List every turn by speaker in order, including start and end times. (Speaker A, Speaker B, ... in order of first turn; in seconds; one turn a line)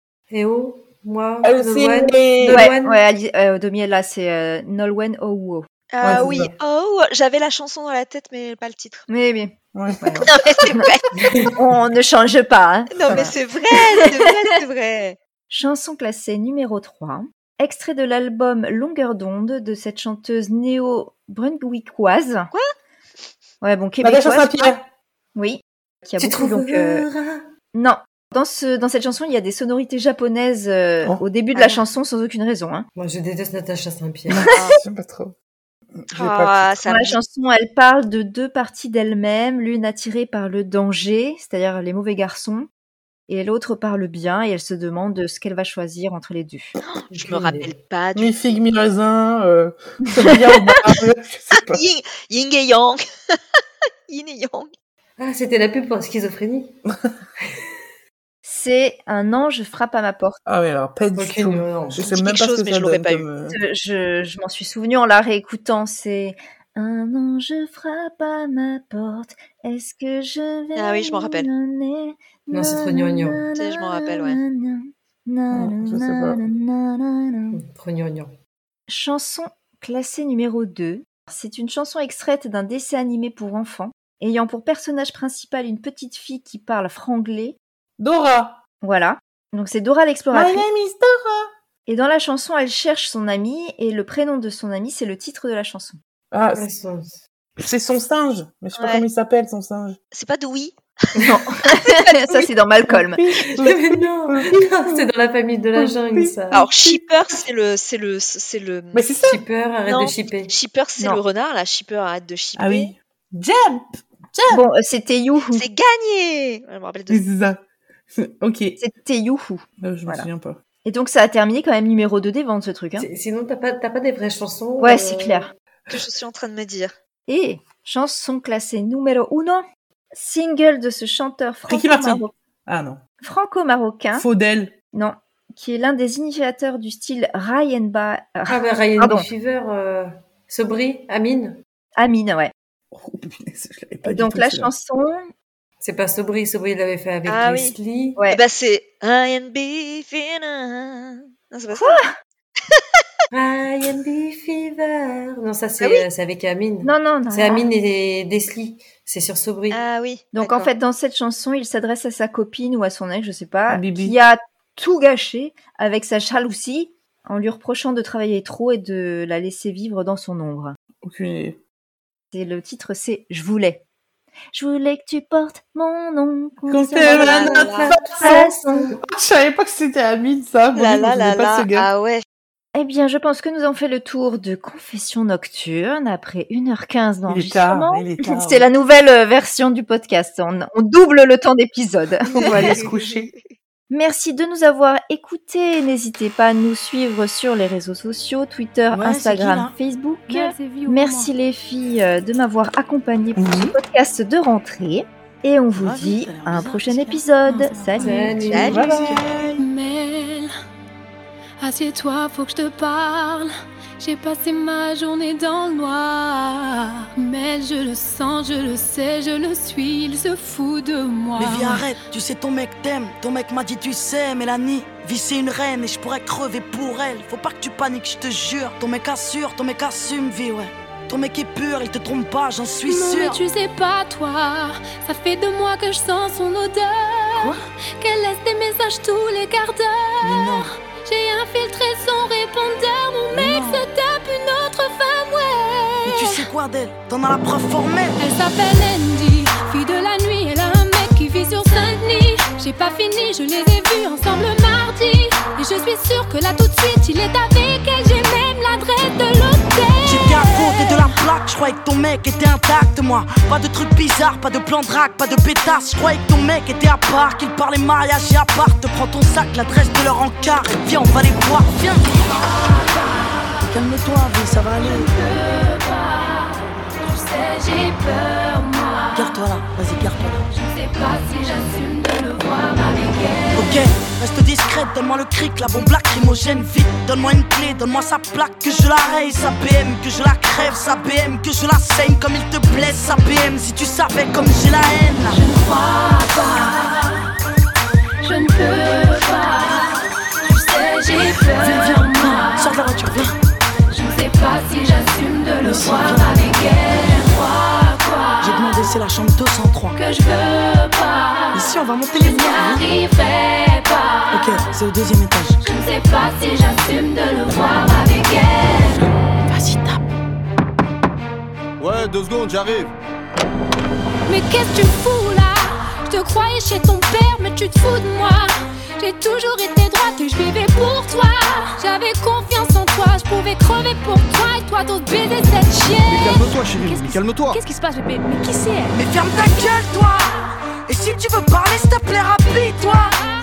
Speaker A: 0.3-3.0
Speaker B: 1.4-2.7
Speaker C: 2.5-5.7
Speaker D: 5.9-9.0
Speaker B: 6.0-6.5
Speaker C: 9.1-11.0
Speaker B: 9.7-10.3
Speaker D: 10.3-11.0
Speaker A: 11.2-11.5
Speaker C: 11.6-13.3
Speaker D: 12.9-15.2
Speaker C: 15.5-22.5
Speaker C: 23.6-24.8
Speaker B: 24.0-24.9
Speaker C: 25.4-27.1
Speaker A: 26.2-27.4
Speaker C: 27.7-32.9
Speaker D: 31.6-31.8
Speaker A: 33.0-34.5
Speaker B: 34.3-35.4
Speaker D: 34.5-34.8
Speaker B: 36.0-36.8
Speaker D: 36.1-37.2
Speaker C: 36.9-42.7
Speaker C: 43.3-46.7
Speaker D: 46.9-48.6
Speaker A: 47.1-47.7
Speaker B: 48.2-51.8
Speaker D: 51.7-53.4
Speaker D: 54.1-54.7
Speaker A: 55.2-56.8
Speaker C: 58.4-60.4
Speaker B: 60.5-63.6
Speaker A: 61.1-62.1
Speaker D: 62.0-63.3
Speaker C: 63.5-77.6
Speaker D: 70.8-71.5
Speaker A: 72.5-73.4
Speaker D: 73.6-74.4
Speaker B: 75.5-76.4
Speaker A: 77.5-78.3
Speaker C: 78.9-87.6
Speaker B: 88.0-88.6
Speaker C: 88.8-90.6
Speaker B: 90.3-91.5
Speaker C: 91.9-96.0
Speaker B: 96.3-96.7
Speaker A: 96.5-97.2
Speaker B: 97.6-100.0
Speaker D: 98.8-99.0
Speaker D: 100.1-101.2
Speaker C: 101.2-103.2
Speaker B: 102.9-105.1
Speaker A: 103.5-106.7
Speaker B: 105.8-107.0
Speaker D: 106.5-109.0
Speaker B: 108.9-109.4
Speaker A: 109.2-110.5
Speaker D: 109.9-112.9
Speaker B: 112.6-114.6
Speaker C: 114.5-115.6
Speaker D: 115.5-117.2
Speaker B: 117.1-117.6
Speaker B: 118.1-118.8
Speaker C: 118.8-120.3
Speaker B: 119.8-120.6
Speaker C: 120.8-123.1
Speaker A: 123.0-125.5
Speaker C: 124.8-125.5
Speaker D: 125.9-126.9
Speaker C: 127.3-132.3
Speaker B: 131.7-133.0
Speaker C: 133.2-134.2
Speaker B: 134.1-134.7
Speaker C: 134.9-139.3
Speaker A: 138.5-141.6
Speaker C: 142.0-142.5
Speaker B: 142.9-144.7
Speaker C: 144.1-145.3
Speaker A: 145.8-148.2
Speaker D: 147.3-147.8
Speaker D: 148.3-152.0
Speaker C: 151.7-152.1
Speaker D: 152.7-153.0
Speaker A: 153.3-159.8
Speaker D: 155.8-156.1
Speaker C: 156.8-157.7
Speaker D: 159.7-160.7
Speaker C: 160.3-170.8
Speaker B: 163.7-164.2
Speaker B: 171.0-171.6
Speaker C: 172.3-173.8
Speaker C: 174.5-177.4
Speaker B: 176.7-181.9
Speaker A: 176.9-178.9
Speaker D: 177.4-177.9
Speaker C: 178.2-178.9
Speaker D: 180.8-182.2
Speaker C: 182.8-192.8
Speaker B: 187.3-188.7
Speaker B: 192.2-193.3
Speaker D: 192.4-193.5
Speaker C: 193.9-208.4
Speaker E: 198.9-199.7
Speaker F: 200.3-201.3
Speaker B: 203.4-203.8
Speaker E: 205.8-209.5
Speaker A: 208.0-209.2
Speaker D: 208.5-208.8
Speaker B: 208.7-209.5
Speaker F: 208.7-210.5
Speaker F: 211.6-221.9
Speaker E: 221.4-233.4
Speaker F: 232.9-246.4
Speaker E: 240.2-240.7
Speaker E: 243.3-243.8
Speaker E: 246.1-248.2
Speaker F: 248.2-261.2
Speaker E: 260.1-272.1
Speaker F: 272.7-273.6
Speaker E: 273.6-275.1
Speaker F: 274.8-279.4
Speaker E: 279.1-280.5
Speaker F: 280.5-283.9
Speaker E: 283.6-295.4
Speaker F: 295.3-297.3
Speaker F: 298.2-302.8
Speaker E: 301.6-303.3
Speaker F: 303.9-308.7
Speaker E: 305.6-306.4
Speaker E: 308.4-310.0
Speaker F: 309.9-314.6
Speaker E: 311.5-312.8
Speaker E: 314.3-315.6
Speaker F: 315.6-319.1
Speaker E: 319.5-320.0
Speaker G: 321.8-322.9
Speaker F: 324.3-339.0
Speaker G: 336.0-337.6
Speaker E: 338.9-340.4
Speaker E: 340.9-343.2
Speaker F: 342.7-343.3